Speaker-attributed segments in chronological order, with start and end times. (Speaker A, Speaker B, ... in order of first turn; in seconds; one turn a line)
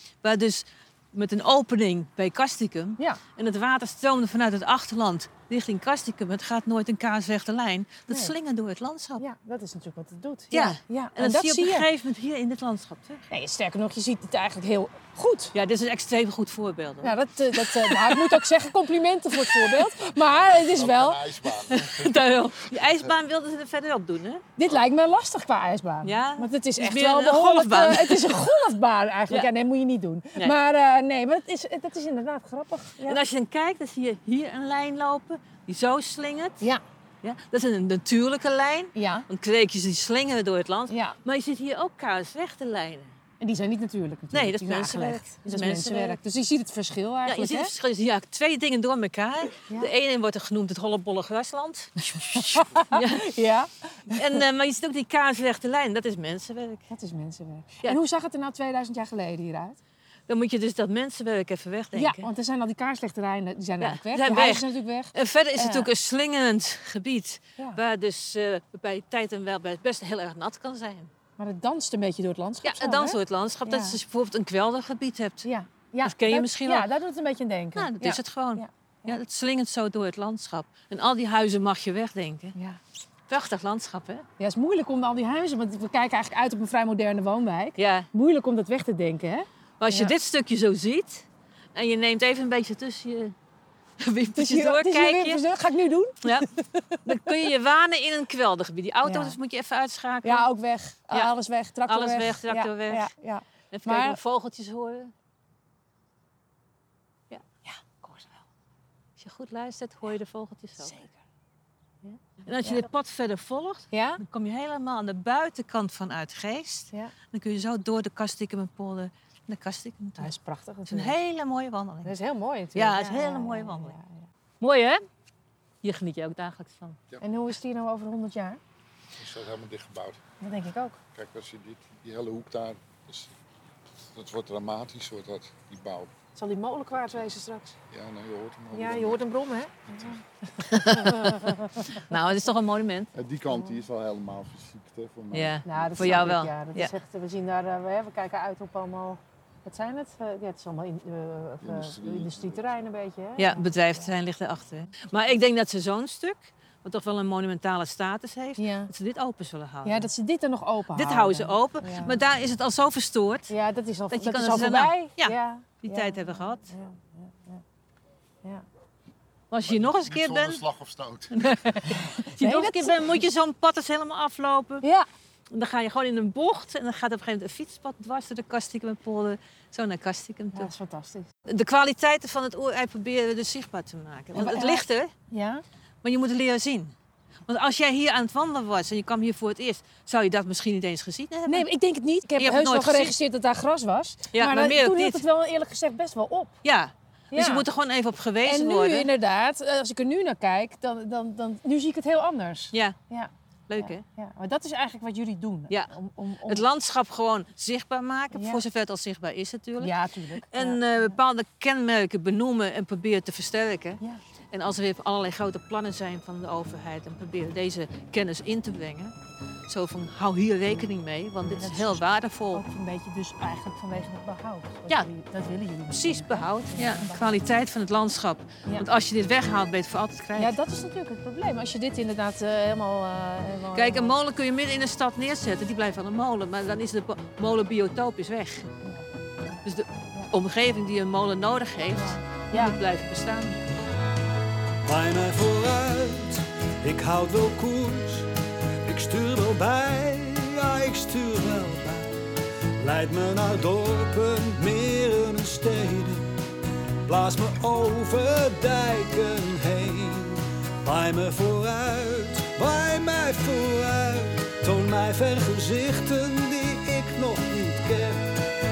Speaker A: 0.2-9.2
Speaker B: 8.1-8.3
Speaker B: 9.2-11.9
Speaker A: 10.5-13.2
Speaker B: 13.3-15.5
Speaker A: 15.5-18.5
Speaker B: 17.0-21.2
Speaker A: 19.4-19.9
Speaker C: 20.3-23.1
Speaker A: 21.7-24.4
Speaker B: 24.6-33.2
Speaker A: 26.0-28.7
Speaker A: 33.0-36.7
Speaker A: 37.2-43.1
Speaker B: 38.9-39.2
Speaker B: 40.9-41.1
Speaker B: 43.4-47.7
Speaker A: 44.3-46.2
Speaker A: 47.2-53.4
Speaker B: 52.3-54.4
Speaker A: 54.1-56.9
Speaker B: 56.9-59.8
Speaker A: 60.3-62.3
Speaker B: 61.9-65.9
Speaker A: 63.8-71.1
Speaker B: 71.4-74.0
Speaker A: 72.6-75.5
Speaker B: 75.4-79.2
Speaker A: 76.0-76.9
Speaker A: 77.7-82.5
Speaker A: 83.3-84.2
Speaker B: 84.4-90.1
Speaker A: 87.8-88.1
Speaker A: 89.8-93.3
Speaker A: 94.0-95.4
Speaker B: 94.3-97.1
Speaker A: 97.0-100.5
Speaker B: 99.0-99.4
Speaker B: 100.2-104.2
Speaker A: 101.9-103.1
Speaker A: 103.7-105.1
Speaker B: 107.6-108.4
Speaker A: 109.2-111.0
Speaker B: 110.8-111.1
Speaker B: 112.0-112.8
Speaker A: 112.4-120.3
Speaker B: 113.9-114.2
Speaker B: 120.2-121.2
Speaker A: 120.9-122.1
Speaker B: 122.0-124.2
Speaker A: 122.7-123.9
Speaker A: 124.6-125.0
Speaker A: 125.8-127.0
Speaker B: 127.2-128.6
Speaker C: 129.1-130.2
Speaker B: 130.4-131.0
Speaker C: 131.1-133.3
Speaker C: 134.1-136.1
Speaker B: 136.3-137.7
Speaker C: 136.9-137.3
Speaker C: 137.9-139.3
Speaker B: 138.7-142.0
Speaker C: 139.8-140.2
Speaker A: 140.7-143.1
Speaker C: 143.1-146.3
Speaker B: 143.5-143.8
Speaker A: 145.3-146.9
Speaker B: 145.6-154.1
Speaker C: 151.6-152.7
Speaker A: 153.4-160.1
Speaker B: 158.6-158.9
Speaker B: 159.8-162.2
Speaker A: 160.9-163.5
Speaker B: 163.5-167.6
Speaker A: 164.1-166.7
Speaker A: 169.5-170.6
Speaker C: 169.6-171.5
Speaker A: 171.3-174.8
Speaker B: 171.9-173.2
Speaker A: 175.5-180.7
Speaker B: 180.5-181.3
Speaker A: 181.5-185.1
Speaker B: 184.3-185.6
Speaker A: 186.0-186.9
Speaker A: 187.5-191.7
Speaker B: 191.5-196.6
Speaker A: 192.3-193.2
Speaker A: 194.3-195.2
Speaker A: 196.6-199.1
Speaker B: 197.3-197.7
Speaker B: 198.4-206.7
Speaker A: 202.7-203.0
Speaker A: 203.7-204.0
Speaker A: 206.4-209.9
Speaker B: 208.3-208.6
Speaker B: 209.8-211.2
Speaker A: 210.5-214.0
Speaker A: 214.5-219.1
Speaker A: 219.7-222.6
Speaker B: 221.6-227.4
Speaker A: 225.9-230.6
Speaker B: 230.3-234.2
Speaker A: 233.7-238.7
Speaker B: 238.8-239.6
Speaker A: 239.6-243.6
Speaker B: 241.9-242.8
Speaker D: 245.2-246.3
Speaker D: 246.9-248.3
Speaker D: 248.9-252.1
Speaker D: 252.9-256.2
Speaker D: 257.1-260.3
Speaker D: 260.9-268.2